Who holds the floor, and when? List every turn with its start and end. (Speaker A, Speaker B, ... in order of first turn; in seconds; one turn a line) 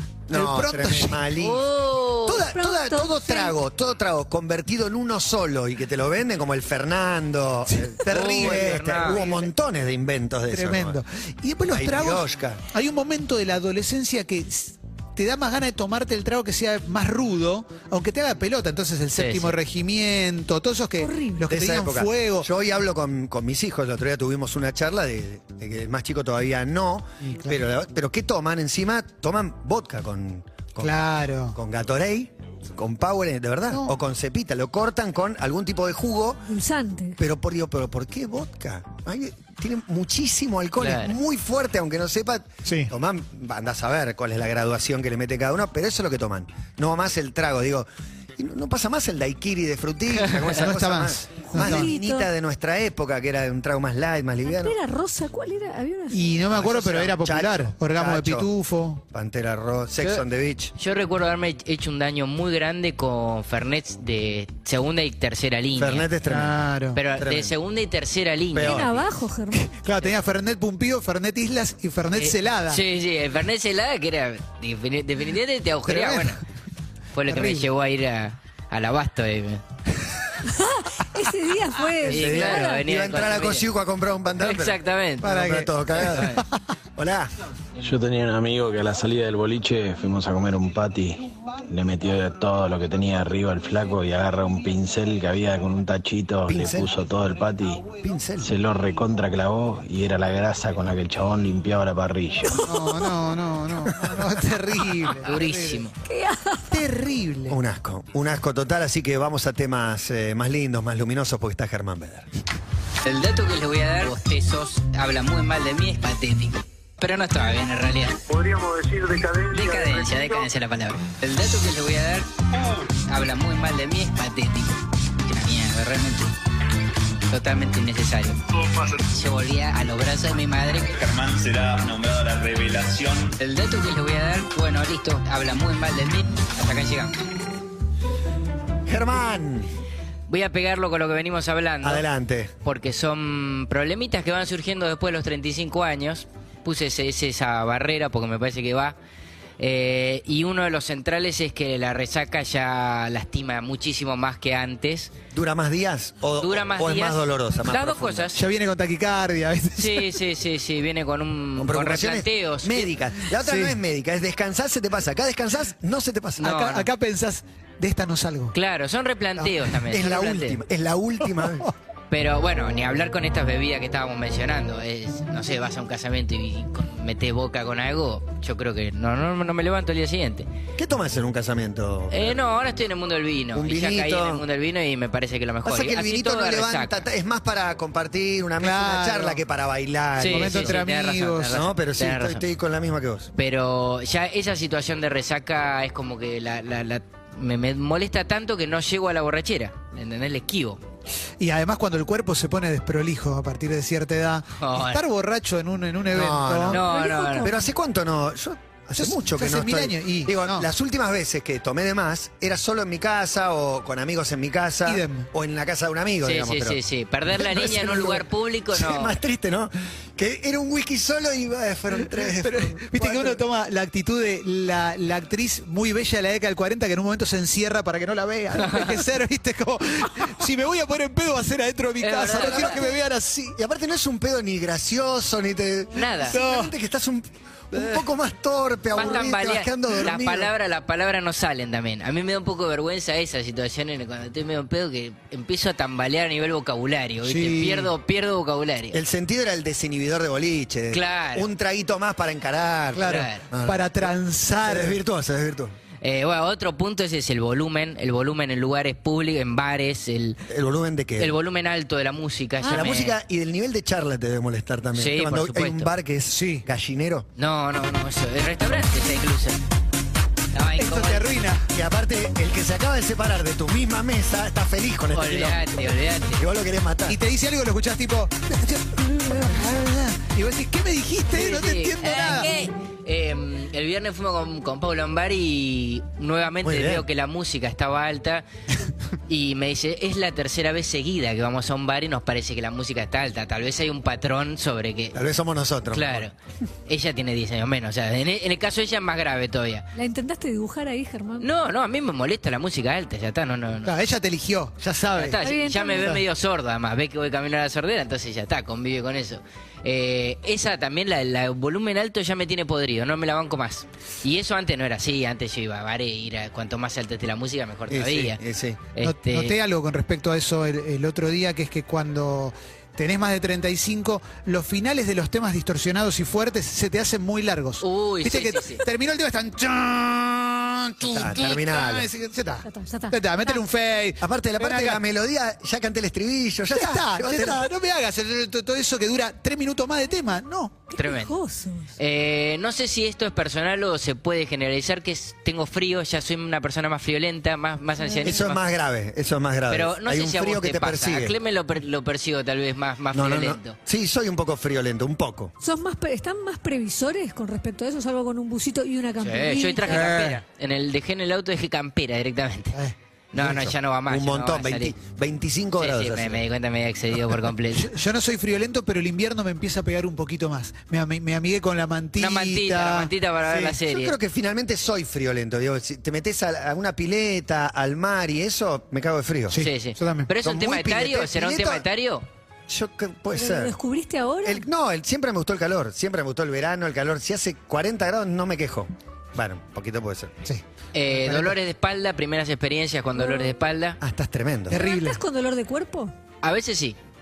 Speaker A: 0.3-1.7
Speaker B: 0.3-1.2
Speaker C: 1.4-2.5
Speaker A: 2.3-11.0
Speaker D: 2.6-3.5
Speaker B: 7.7-9.1
Speaker C: 8.1-9.5
Speaker B: 10.5-22.5
Speaker A: 11.7-12.6
Speaker C: 19.1-19.6
Speaker D: 21.0-21.4
Speaker A: 21.5-31.0
Speaker B: 27.2-27.6
Speaker B: 30.8-31.6
Speaker A: 31.5-36.4
Speaker D: 36.5-37.2
Speaker A: 37.2-54.8
Speaker C: 40.8-41.2
Speaker B: 42.6-42.9
Speaker B: 50.4-51.9
Speaker D: 51.6-52.3
Speaker D: 54.4-56.4
Speaker B: 56.1-59.0
Speaker A: 56.5-58.5
Speaker A: 59.1-60.7
Speaker C: 60.8-66.1
Speaker A: 65.8-67.5
Speaker B: 66.3-67.0
Speaker C: 67.0-68.8
Speaker A: 68.5-69.1
Speaker D: 68.6-69.8
Speaker B: 69.8-72.8
Speaker C: 72.2-76.4
Speaker B: 75.9-76.4
Speaker C: 77.1-79.6
Speaker B: 77.3-77.7
Speaker D: 80.5-82.8
Speaker A: 82.0-86.4
Speaker C: 82.0-83.7
Speaker C: 84.4-85.3
Speaker B: 85.2-86.3
Speaker C: 86.0-86.4
Speaker A: 87.0-87.3
Speaker E: 87.8-102.6
Speaker A: 96.5-96.9
Speaker A: 98.0-98.5
Speaker D: 102.5-103.2
Speaker B: 102.6-105.9
Speaker A: 103.9-104.3
Speaker C: 105.2-106.0
Speaker D: 106.0-106.8
Speaker B: 106.7-107.6
Speaker A: 107.5-112.3
Speaker C: 113.0-118.2
Speaker F: 118.3-120.5
Speaker C: 119.5-122.3
Speaker C: 123.0-126.3
Speaker C: 127.3-128.4
Speaker C: 128.9-130.9
Speaker G: 130.9-133.4
Speaker C: 133.4-137.2
Speaker A: 138.9-139.7
Speaker C: 140.3-142.1
Speaker A: 141.8-142.5
Speaker C: 142.6-149.0
Speaker C: 149.6-155.1
Speaker A: 155.3-158.3
Speaker C: 156.4-158.4
Speaker B: 158.3-160.2
Speaker C: 159.8-162.9
Speaker A: 161.6-166.6
Speaker B: 163.4-163.8
Speaker C: 166.4-166.9
Speaker B: 166.4-168.6
Speaker C: 168.5-170.6
Speaker A: 169.6-171.7
Speaker B: 171.3-171.7
Speaker C: 172.1-180.5
Speaker A: 180.8-182.4
Speaker C: 182.1-187.0
Speaker A: 183.5-184.4
Speaker A: 185.7-190.8
Speaker B: 188.6-189.4
Speaker C: 190.2-192.4
Speaker B: 190.2-191.6
Speaker A: 191.5-193.3
Speaker C: 193.4-200.8
Speaker B: 201.4-206.8
Speaker C: 204.6-205.0
Speaker A: 206.1-206.9
Speaker C: 206.7-207.5
Speaker D: 206.8-207.7
Speaker A: 207.4-216.8
Speaker B: 209.0-210.7
Speaker B: 214.8-215.3
Speaker C: 216.2-219.2
Speaker A: 217.4-223.4
Speaker B: 221.9-233.6
Speaker C: 228.6-229.0
Speaker C: 232.0-232.8
Speaker A: 232.3-233.0
Speaker A: 233.5-240.5
Speaker C: 235.9-236.4
Speaker B: 236.2-236.7
Speaker C: 238.9-249.0
Speaker B: 247.2-247.9
Speaker A: 248.9-255.8
Speaker C: 250.9-251.5
Speaker B: 252.9-255.0
Speaker C: 253.0-253.4
Speaker C: 256.0-260.4
Speaker A: 260.5-261.4
Speaker C: 261.2-263.2
Speaker D: 262.6-262.9
Speaker A: 262.7-267.3
Speaker C: 264.9-265.9
Speaker B: 266.3-266.6
Speaker C: 267.4-269.6
Speaker C: 270.5-271.4
Speaker B: 270.8-271.6
Speaker A: 271.7-275.8
Speaker C: 275.1-276.4
Speaker A: 276.3-277.2
Speaker B: 277.1-282.5
Speaker C: 281.3-288.4
Speaker A: 286.6-287.1
Speaker C: 289.3-295.2
Speaker A: 295.1-296.3
Speaker C: 295.9-296.3
Speaker C: 296.9-299.9
Speaker D: 299.9-301.5
Speaker C: 301.4-303.9
Speaker B: 303.9-305.4
Speaker C: 305.2-318.4
Speaker D: 305.4-306.2
Speaker B: 306.0-306.2
Speaker A: 317.9-318.8
Speaker C: 318.9-319.6
Speaker B: 319.0-335.0
Speaker C: 327.8-328.8
Speaker A: 331.0-332.1
Speaker D: 332.6-333.6
Speaker A: 334.2-337.7
Speaker B: 336.7-340.8
Speaker D: 340.9-341.9
Speaker C: 340.9-341.4
Speaker C: 342.0-348.6
Speaker D: 348.0-348.3
Speaker A: 348.2-351.4
Speaker C: 349.7-353.8
Speaker A: 353.1-355.5
Speaker D: 355.6-360.1
Speaker C: 359.2-362.8
Speaker B: 359.9-360.4
Speaker C: 363.3-364.9
Speaker A: 363.4-366.4
Speaker C: 365.8-367.9
Speaker B: 367.7-373.7
Speaker C: 372.2-374.1
Speaker A: 373.7-379.6
Speaker B: 379.5-380.3
Speaker C: 379.5-382.3
Speaker A: 380.4-381.9
Speaker A: 382.7-383.8
Speaker D: 383.4-384.6
Speaker A: 384.4-390.3
Speaker B: 390.4-391.6
Speaker C: 390.9-394.0
Speaker D: 393.2-393.6
Speaker A: 394.0-394.8
Speaker B: 394.7-395.2
Speaker D: 394.7-396.1
Speaker C: 396.4-397.0